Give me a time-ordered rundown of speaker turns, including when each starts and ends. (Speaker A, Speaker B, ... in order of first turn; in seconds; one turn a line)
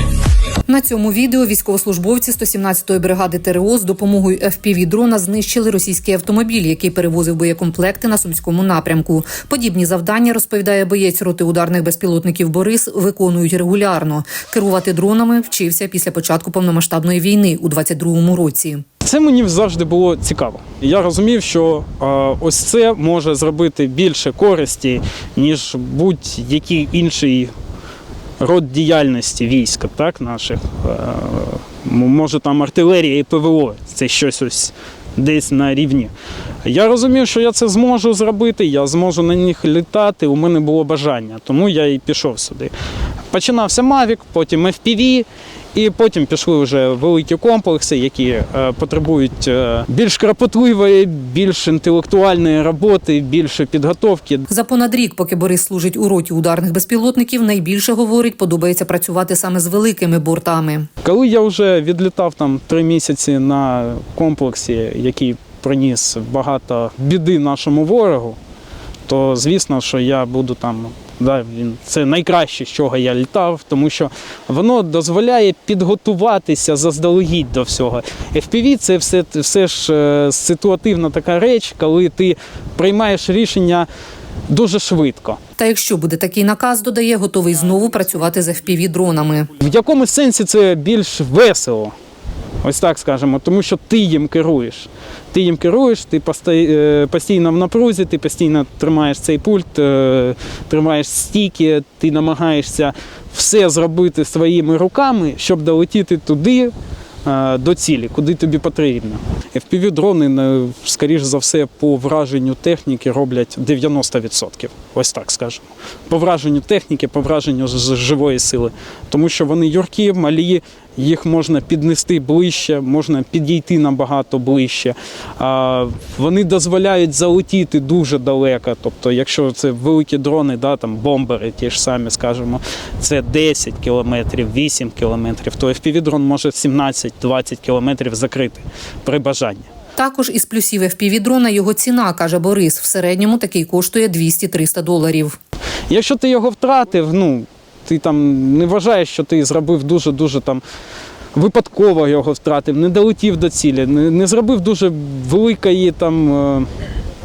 Speaker A: 0.7-18.8
Speaker B: 19.0-27.5
Speaker B: 28.4-36.1
Speaker B: 36.6-42.7
Speaker B: 43.3-54.5
Speaker A: 54.5-60.9
Speaker B: 61.0-68.4
Speaker B: 69.1-83.9
Speaker B: 84.5-85.4
Speaker A: 85.6-89.5
Speaker B: 89.5-91.9
Speaker B: 92.6-106.7
Speaker B: 107.2-139.7
Speaker A: 139.9-145.4
Speaker B: 145.9-150.6
Speaker B: 151.3-156.7